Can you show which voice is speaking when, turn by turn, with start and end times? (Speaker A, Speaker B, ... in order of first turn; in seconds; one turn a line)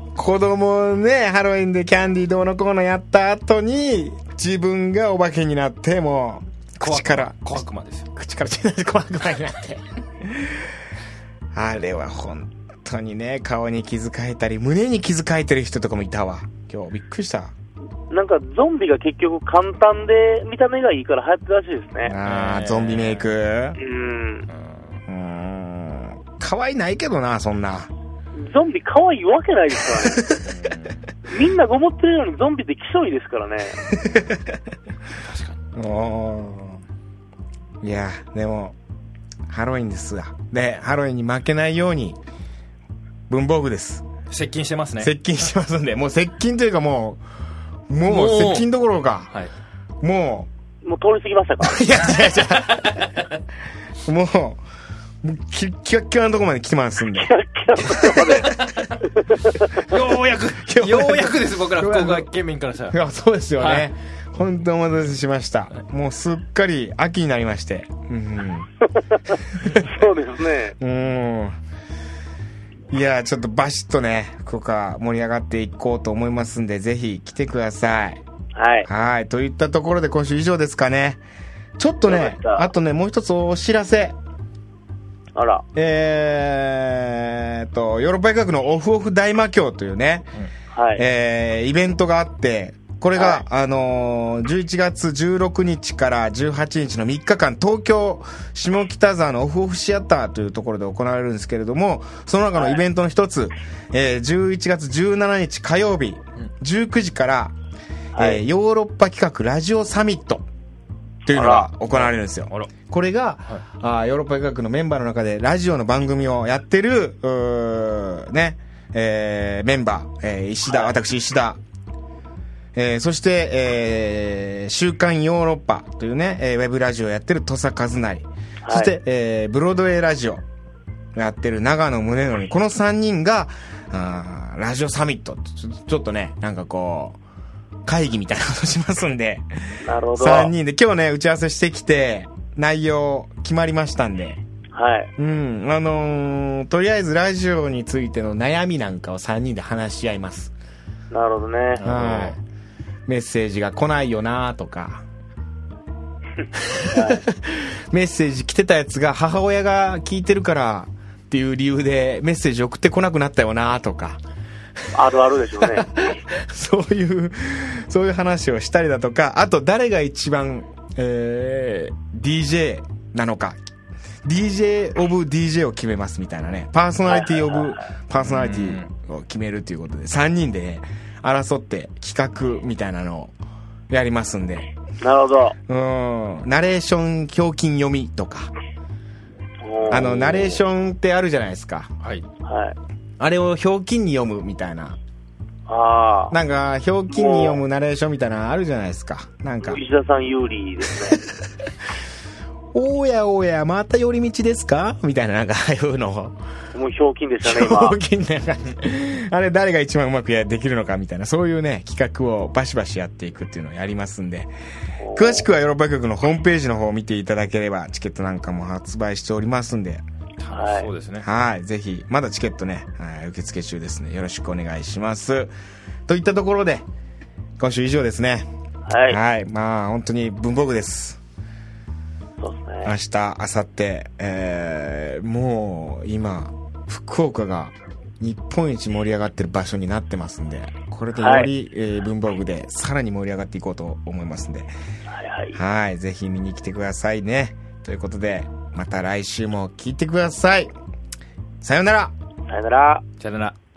Speaker A: 0.1-7.6
Speaker B: 6.8-8.1
Speaker A: 8.1-10.7
Speaker A: 11.5-17.5
Speaker C: 18.1-22.1
Speaker A: 22.1-23.8
Speaker B: 22.2-23.3
Speaker C: 23.8-24.5
Speaker B: 24.5-25.0
Speaker A: 25.1-27.9
Speaker C: 28.3-30.2
Speaker A: 30.1-30.4
Speaker B: 30.4-31.1
Speaker C: 31.3-33.8
Speaker A: 33.9-34.6
Speaker B: 35.1-35.6
Speaker A: 35.7-36.8
Speaker A: 37.8-38.7
Speaker A: 39.5-42.2
Speaker A: 43.3-44.0
Speaker B: 44.3-45.1
Speaker A: 45.0-47.2
Speaker A: 47.9-49.3
Speaker B: 48.1-48.7
Speaker A: 50.0-50.5
Speaker C: 50.8-51.8
Speaker A: 51.6-53.0
Speaker B: 52.3-53.4
Speaker A: 54.0-54.6
Speaker A: 55.2-58.6
Speaker C: 57.2-58.5
Speaker B: 58.4-59.0
Speaker C: 59.1-59.8
Speaker B: 59.8-63.0
Speaker A: 59.9-62.3
Speaker A: 62.9-68.7
Speaker B: 63.6-63.9
Speaker C: 69.0-70.8
Speaker A: 69.6-69.9
Speaker A: 70.8-71.6
Speaker A: 72.9-78.2
Speaker C: 78.5-78.9
Speaker A: 78.8-81.2
Speaker A: 81.8-84.2
Speaker C: 82.1-82.7
Speaker C: 85.3-85.6
Speaker A: 85.7-90.3
Speaker C: 90.7-91.0
Speaker A: 91.0-107.5
Speaker C: 102.5-102.8
Speaker C: 108.1-108.4
Speaker A: 108.2-110.5
Speaker A: 111.2-121.6
Speaker C: 111.3-111.7
Speaker B: 111.9-112.7
Speaker C: 120.7-120.9
Speaker A: 122.7-130.4
Speaker C: 128.6-128.9
Speaker A: 131.1-137.2
Speaker A: 137.8-144.4
Speaker C: 139.8-140.5
Speaker C: 144.7-145.1
Speaker A: 145.2-150.5
Speaker C: 151.1-151.8
Speaker B: 151.8-152.4
Speaker A: 151.8-152.4
Speaker A: 153.1-155.0
Speaker A: 156.6-164.2
Speaker C: 156.9-157.2
Speaker C: 164.9-165.9
Speaker A: 165.6-173.6
Speaker A: 174.2-183.3
Speaker C: 177.1-177.8
Speaker B: 178.2-178.9
Speaker A: 183.9-184.7
Speaker C: 185.0-185.6
Speaker A: 185.7-188.5
Speaker C: 189.6-190.6
Speaker A: 189.9-191.9
Speaker C: 192.4-192.8
Speaker A: 193.2-195.0
Speaker C: 195.7-196.3
Speaker A: 196.3-199.8
Speaker C: 197.1-197.6
Speaker C: 199.6-201.2
Speaker A: 202.7-206.3
Speaker C: 206.7-208.0
Speaker A: 207.4-214.5
Speaker C: 215.0-215.5
Speaker A: 215.1-220.0
Speaker B: 220.4-221.3
Speaker C: 220.5-220.9
Speaker A: 221.2-225.5
Speaker A: 226.1-226.8
Speaker A: 227.6-228.5
Speaker C: 228.9-229.2
Speaker A: 229.1-231.2
Speaker C: 232.4-232.9
Speaker A: 232.8-244.7
Speaker C: 241.2-241.5
Speaker C: 245.1-245.6
Speaker A: 245.5-250.7
Speaker A: 251.6-252.1
Speaker C: 252.5-253.0
Speaker B: 253.2-253.5